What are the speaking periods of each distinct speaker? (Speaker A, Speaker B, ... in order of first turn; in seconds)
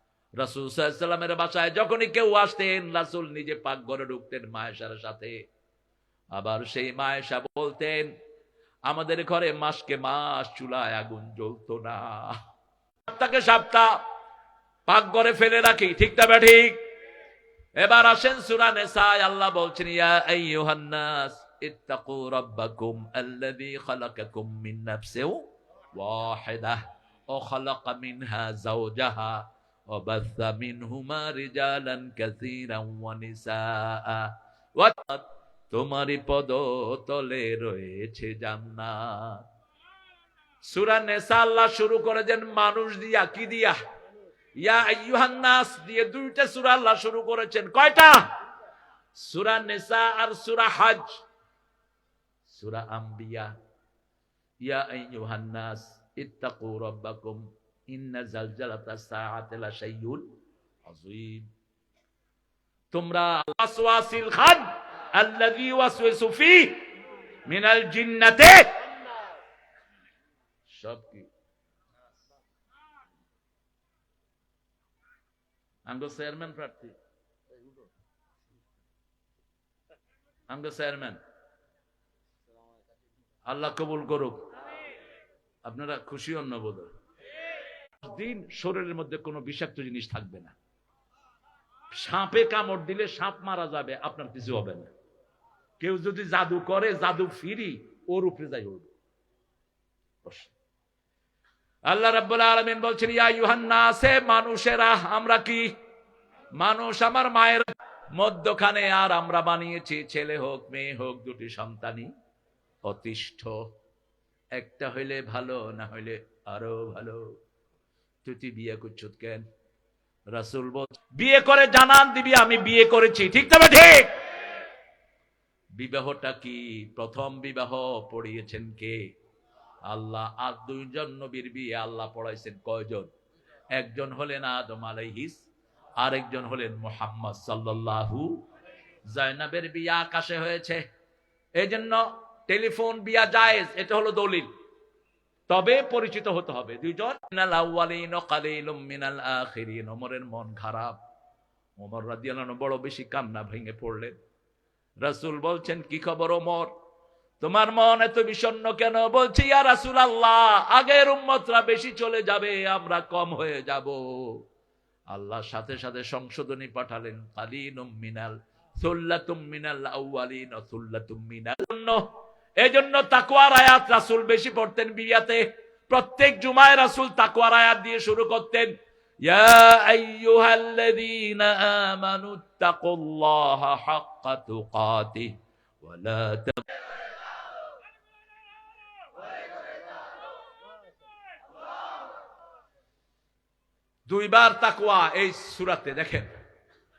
Speaker A: 0.4-5.4, 6.3-8.1, 8.8-12.4, 13.1-13.9, 14.9-16.8, 17.8-39.4, 40.6-43.8, 44.6-48.3, 49.1-51.2, 52.5-53.5, 54.6-60.2, 60.8-61.5, 62.9-66.8, 67.4-68.7, 70.7-71.3, 75.8-76.9, 80.5-81.2, 83.5-84.4, 85.6-86.9, 88.0-90.5, 91.9-94.9, 95.8-98.9, 100.2-100.5, 101.9-105.7, 106.6-112.1, 112.8-113.6, 114.5-117.3, 118.2-119.4, 120.3-124.1, 125.8-129.0, 129.9-133.1, 133.7-135.4, 136.0-138.4, 139.1-140.8, 141.6-144.5, 145.5-150.9, 151.8-154.1, 155.0-156.7, 157.4-164.4, 165.1-172.0, 172.6-178.7, 179.2-186.6, 194.1-196.3